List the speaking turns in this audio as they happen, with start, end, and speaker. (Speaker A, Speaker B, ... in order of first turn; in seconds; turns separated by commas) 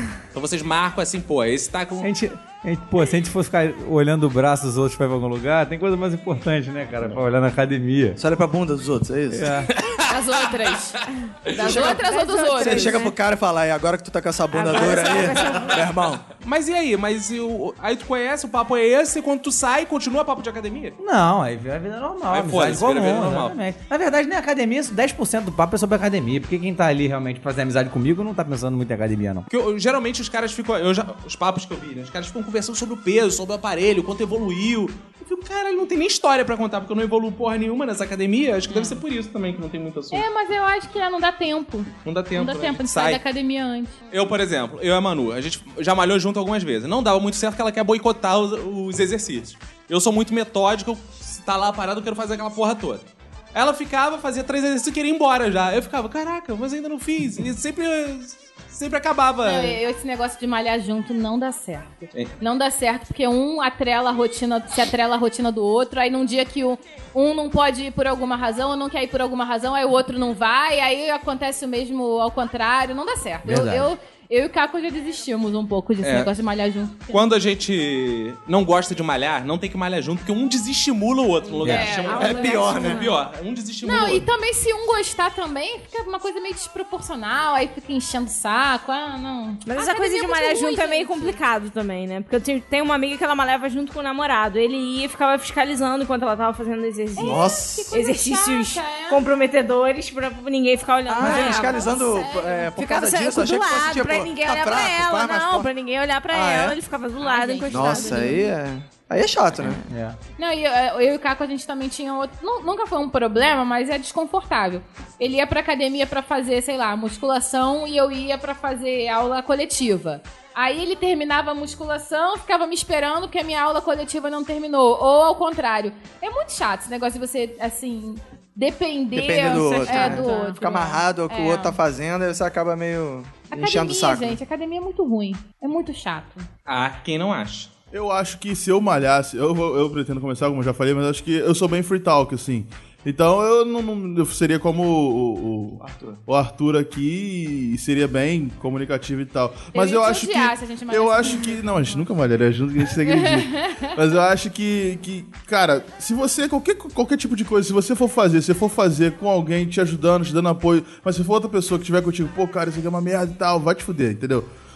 Speaker A: 0.3-2.1, Speaker B: 2.0-8.2, Speaker C: 8.2-9.5, Speaker B: 9.3-9.7, Speaker A: 9.8-10.1, Speaker D: 10.1-13.0, Speaker E: 11.6-13.1, Speaker C: 11.6-16.2, Speaker E: 14.5-15.9, Speaker A: 16.4-21.0, Speaker B: 21.0-29.5, Speaker A: 22.3-23.6, Speaker A: 29.5-40.2, Speaker D: 38.7-39.0, Speaker D: 40.1-44.0, Speaker A: 42.0-43.2, Speaker A: 44.1-59.8, Speaker D: 59.4-77.2, Speaker B: 73.4-73.9, Speaker A: 76.0-76.3, Speaker A: 77.1-84.3, Speaker D: 81.6-83.0, Speaker B: 81.6-81.9, Speaker E: 81.8-83.1, Speaker C: 82.1-83.0, Speaker D: 83.8-91.4, Speaker E: 89.6-102.0, Speaker D: 97.1-99.2, Speaker C: 97.2-97.9, Speaker C: 101.1-105.7, Speaker D: 101.1-102.8, Speaker E: 102.8-108.5, Speaker C: 106.3-106.8, Speaker D: 107.2-108.5, Speaker C: 107.7-109.8, Speaker B: 109.9-110.2, Speaker D: 110.4-131.8, Speaker C: 129.1-134.4, Speaker E: 129.3-130.6, Speaker D: 133.5-136.4, Speaker A: 136.7-137.7, Speaker F: 137.9-164.5, Speaker C: 145.8-146.2, Speaker D: 149.7-151.8, Speaker D: 153.0-153.9